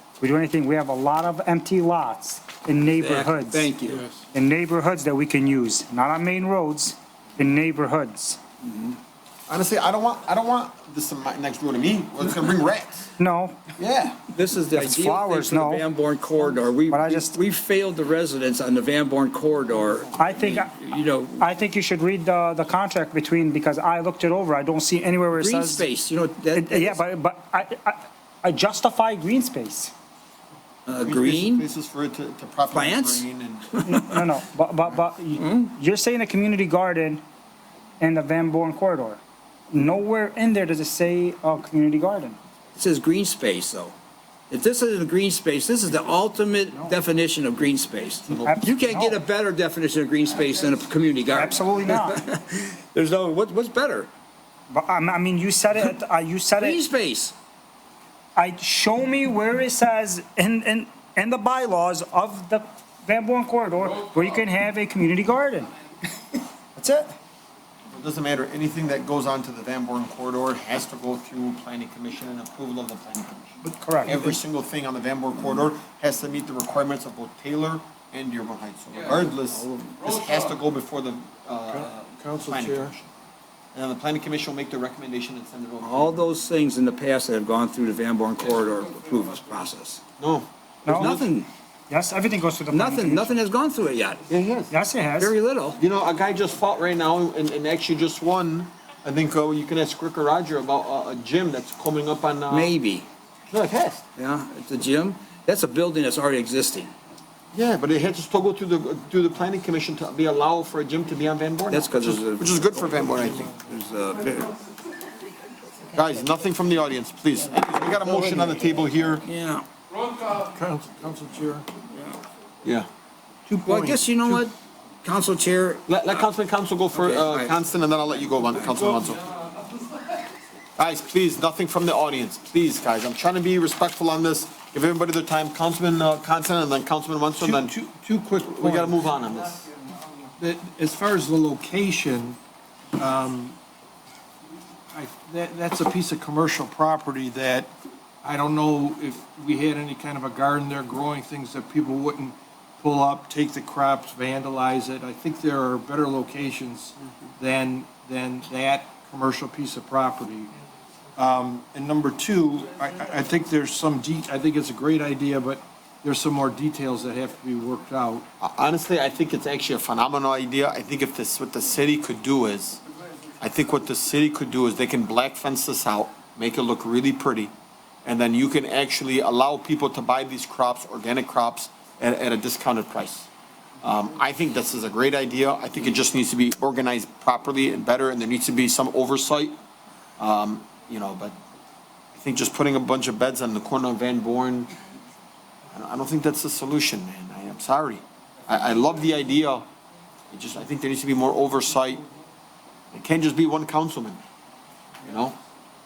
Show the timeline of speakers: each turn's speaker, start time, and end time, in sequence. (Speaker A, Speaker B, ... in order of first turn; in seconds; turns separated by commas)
Speaker A: 0.2-3.7, Speaker B: 2.9-4.1, Speaker A: 4.3-8.4, Speaker B: 8.6-9.0, Speaker C: 9.5-13.1, Speaker A: 13.2-13.6, Speaker C: 13.8-14.2, Speaker B: 14.3-21.5, Speaker A: 14.7-15.8, Speaker A: 16.9-17.4, Speaker A: 20.2-20.8, Speaker A: 21.4-25.9, Speaker B: 25.3-27.0, Speaker A: 26.5-29.9, Speaker B: 30.9-31.6, Speaker C: 31.0-33.8, Speaker B: 32.7-34.2, Speaker A: 33.9-37.2, Speaker B: 35.4-35.7, Speaker A: 38.0-42.4, Speaker B: 42.8-43.9, Speaker B: 44.5-54.1, Speaker C: 48.3-48.7, Speaker A: 48.3-49.2, Speaker A: 51.3-52.2, Speaker A: 54.7-56.8, Speaker B: 56.6-57.4, Speaker A: 58.4-65.7, Speaker A: 66.8-67.1, Speaker C: 67.9-83.1, Speaker A: 73.6-74.2, Speaker B: 79.5-79.9, Speaker D: 81.7-83.0, Speaker C: 83.7-86.3, Speaker B: 85.8-90.0, Speaker C: 90.2-91.2, Speaker A: 90.9-91.2, Speaker B: 90.9-91.5, Speaker A: 91.9-93.3, Speaker B: 92.7-94.2, Speaker C: 94.3-94.8, Speaker A: 94.7-95.3, Speaker B: 95.2-95.8, Speaker C: 95.8-102.7, Speaker B: 102.5-103.1, Speaker C: 103.5-104.0, Speaker B: 104.2-106.9, Speaker C: 107.5-113.5, Speaker B: 111.7-112.6, Speaker B: 113.5-114.5, Speaker C: 115.9-119.2, Speaker B: 119.2-119.7, Speaker D: 120.3-121.7, Speaker B: 121.9-122.2, Speaker D: 123.5-124.5, Speaker B: 123.6-126.3, Speaker C: 125.9-129.2, Speaker B: 126.9-127.5, Speaker C: 130.8-137.7, Speaker D: 137.4-142.4, Speaker C: 138.4-139.6, Speaker D: 143.0-143.6, Speaker D: 144.9-147.7, Speaker D: 148.2-160.5, Speaker D: 161.2-168.2, Speaker C: 168.4-172.8, Speaker C: 173.4-177.5, Speaker C: 178.1-183.3, Speaker C: 183.8-189.6, Speaker C: 190.2-191.3, Speaker C: 192.2-194.7, Speaker C: 195.7-199.7, Speaker C: 200.3-202.0, Speaker C: 202.9-204.2, Speaker C: 205.0-205.4